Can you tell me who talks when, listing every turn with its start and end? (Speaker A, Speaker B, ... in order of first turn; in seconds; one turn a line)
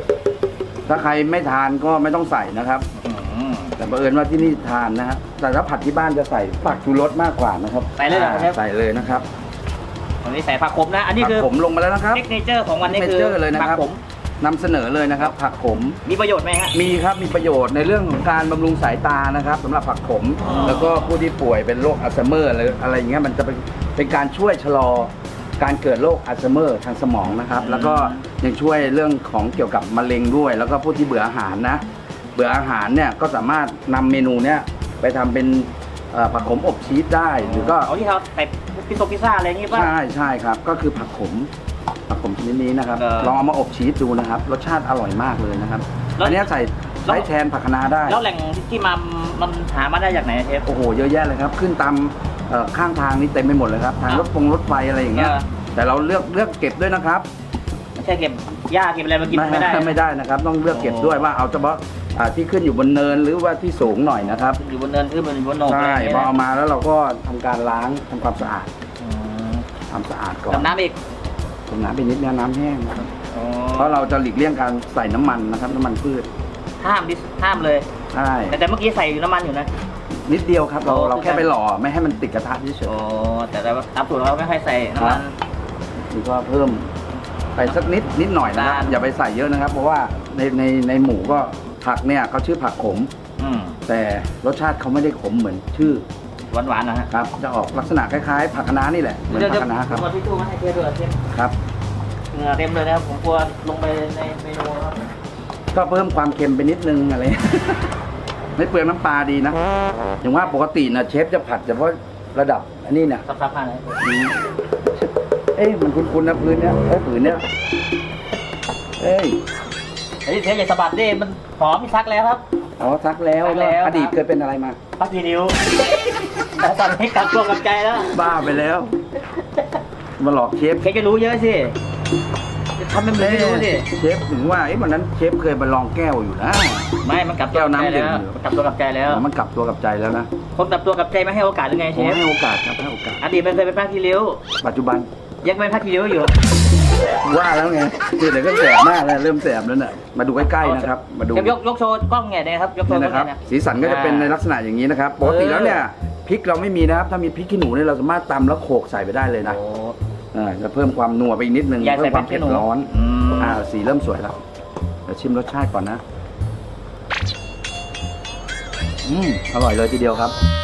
Speaker A: 0.9-2.9
Speaker B: 3.0-3.8
Speaker A: 3.8-9.3
Speaker B: 8.0-8.6
Speaker B: 10.2-11.5
Speaker A: 11.2-12.2
Speaker B: 12.1-14.0
Speaker A: 12.8-13.9
Speaker A: 14.4-16.0
Speaker B: 16.0-16.8
Speaker A: 16.7-31.8
Speaker B: 20.4-20.9
Speaker B: 27.6-28.2
Speaker A: 32.4-37.9
Speaker B: 37.4-39.9
Speaker A: 39.7-41.5
Speaker A: 42.1-48.2
Speaker B: 43.0-43.4
Speaker B: 46.2-46.5
Speaker B: 48.0-50.7
Speaker A: 50.7-57.3
Speaker B: 55.1-55.5
Speaker B: 58.0-60.0
Speaker A: 59.3-64.6
Speaker B: 60.7-61.3
Speaker B: 64.3-66.3
Speaker A: 65.6-68.7
Speaker B: 69.0-69.7
Speaker A: 69.9-70.7
Speaker B: 70.5-71.0
Speaker A: 71.7-73.1
Speaker B: 73.3-74.1
Speaker A: 73.8-76.3
Speaker B: 76.8-77.9
Speaker A: 78.1-78.6
Speaker B: 78.5-79.7
Speaker A: 80.2-82.9
Speaker B: 80.8-81.5
Speaker B: 82.9-85.3
Speaker A: 85.0-85.2
Speaker A: 86.1-86.9
Speaker A: 87.6-93.1
Speaker B: 88.5-89.0
Speaker B: 93.4-93.8
Speaker A: 93.9-96.0
Speaker B: 96.5-97.1
Speaker A: 97.1-100.0
Speaker B: 99.3-101.2
Speaker A: 101.3-101.5
Speaker B: 102.3-105.1
Speaker A: 105.7-108.0
Speaker A: 108.6-109.6
Speaker A: 110.2-113.2
Speaker B: 113.2-114.0
Speaker A: 114.0-114.4
Speaker A: 115.0-117.4
Speaker A: 119.0-119.4
Speaker B: 120.2-122.4
Speaker A: 122.8-124.8
Speaker B: 123.4-124.2
Speaker B: 125.0-128.2
Speaker A: 128.1-128.9
Speaker A: 130.2-130.9
Speaker B: 130.8-131.8
Speaker B: 132.8-133.9
Speaker A: 133.2-136.9
Speaker B: 137.0-139.2
Speaker A: 137.5-138.4
Speaker A: 139.1-140.3
Speaker B: 140.6-142.2
Speaker A: 141.9-143.2
Speaker B: 143.2-144.4
Speaker A: 144.6-145.1
Speaker B: 145.4-146.3
Speaker A: 147.2-151.6
Speaker B: 150.5-154.3
Speaker A: 152.9-159.6
Speaker B: 155.2-155.8
Speaker B: 159.4-160.0
Speaker A: 160.3-164.4
Speaker B: 161.8-163.6
Speaker A: 165.1-166.0
Speaker A: 169.1-170.3